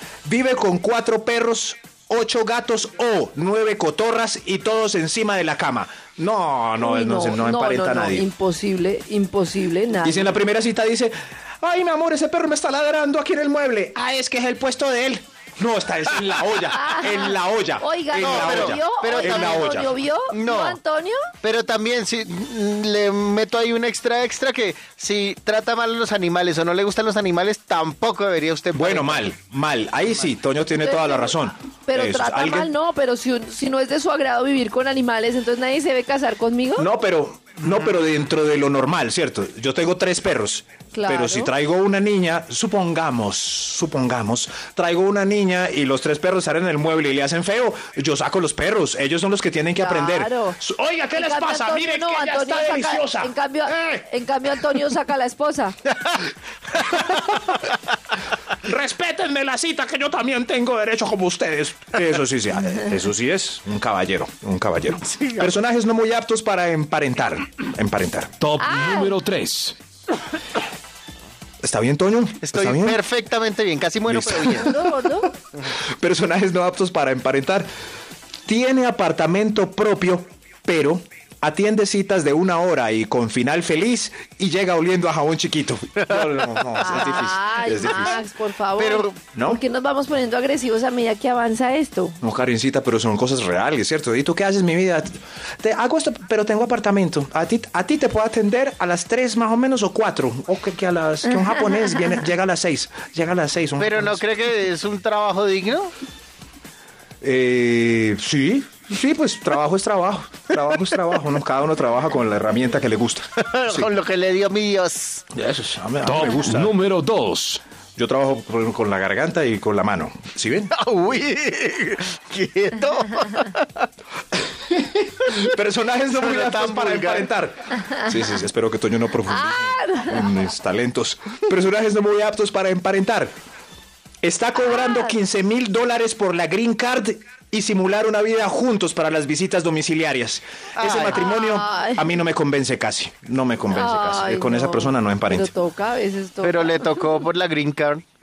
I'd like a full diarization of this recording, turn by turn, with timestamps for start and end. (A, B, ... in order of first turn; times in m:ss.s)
0:00.2-0:08.3 A
0:06.8-0:10.4 B
0:10.0-0:20.0 A
0:16.7-0:21.2 B
0:18.2-0:19.8 C
0:20.3-0:20.8 C
0:21.4-0:29.3 C
0:28.7-0:32.7 A
0:30.7-0:36.9 B
0:36.8-0:54.0 A
0:40.9-0:41.5 B
0:49.8-0:50.6 B
0:51.1-0:55.8 B
0:56.7-0:57.7 A
0:58.6-1:08.3 A
1:05.1-1:05.4 C
1:08.4-1:09.8 D
1:08.6-1:09.2 B
1:11.6-1:13.0 A
1:12.4-1:14.7 C
1:14.1-1:14.9 A
1:14.6-1:15.3 B
1:15.6-1:17.7 A
1:18.4-1:28.2 A
1:26.6-1:27.1 C
1:26.8-1:32.2 B
1:27.8-1:28.1 C
1:28.8-1:29.2 C
1:29.3-1:29.6 A
1:32.2-1:44.2 A
1:43.8-1:45.9 C
1:47.2-1:53.9 A
1:53.4-1:55.2 C
1:55.3-1:56.7 A
1:56.0-1:57.6 D
1:58.0-2:00.7 A
2:00.7-2:03.9 C
2:04.5-2:13.3 A
2:06.1-2:07.3 C
2:09.3-2:10.3 B
2:14.2-2:25.5 A
2:14.6-2:15.2 B
2:20.8-2:21.2 C
2:21.0-2:22.1 B
2:23.7-2:27.0 B
2:26.4-2:28.0 C